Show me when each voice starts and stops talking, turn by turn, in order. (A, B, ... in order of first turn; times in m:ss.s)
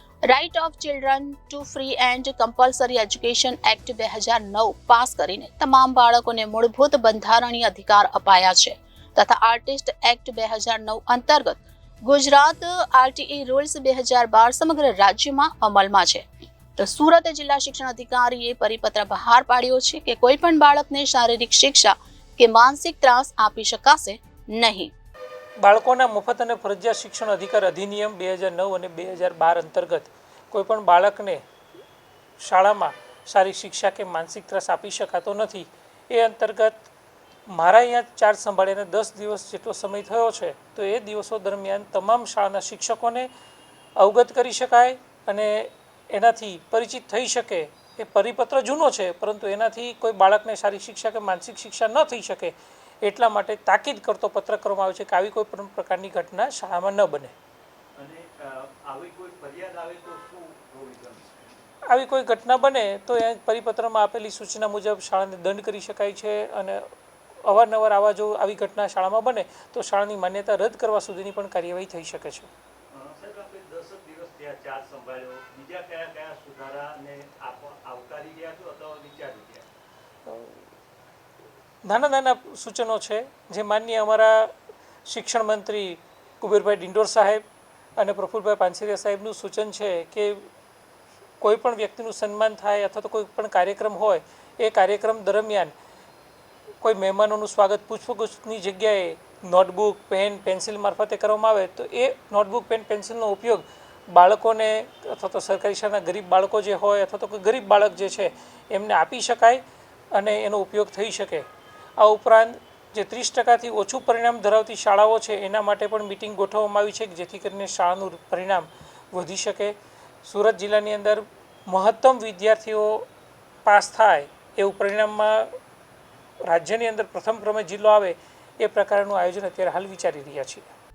0:00.3-0:24.9 A
0:25.6-0:31.4 B
0:32.4-0:36.9 B
0:37.5-0:43.3 B
0:44.0-0:57.3 B
0:58.0-1:01.6 C
1:01.9-1:06.8 B
1:07.4-1:12.5 B
1:12.9-1:19.7 C
1:20.2-1:20.6 B
1:21.8-1:24.5 B
1:25.1-1:27.4 B
1:28.0-1:30.4 B
1:31.4-1:35.7 B
1:36.8-1:49.6 B
1:50.1-1:51.4 B
1:52.0-1:59.7 B
2:00.2-2:03.0 B
2:03.6-2:05.5 B
2:06.5-2:10.7 B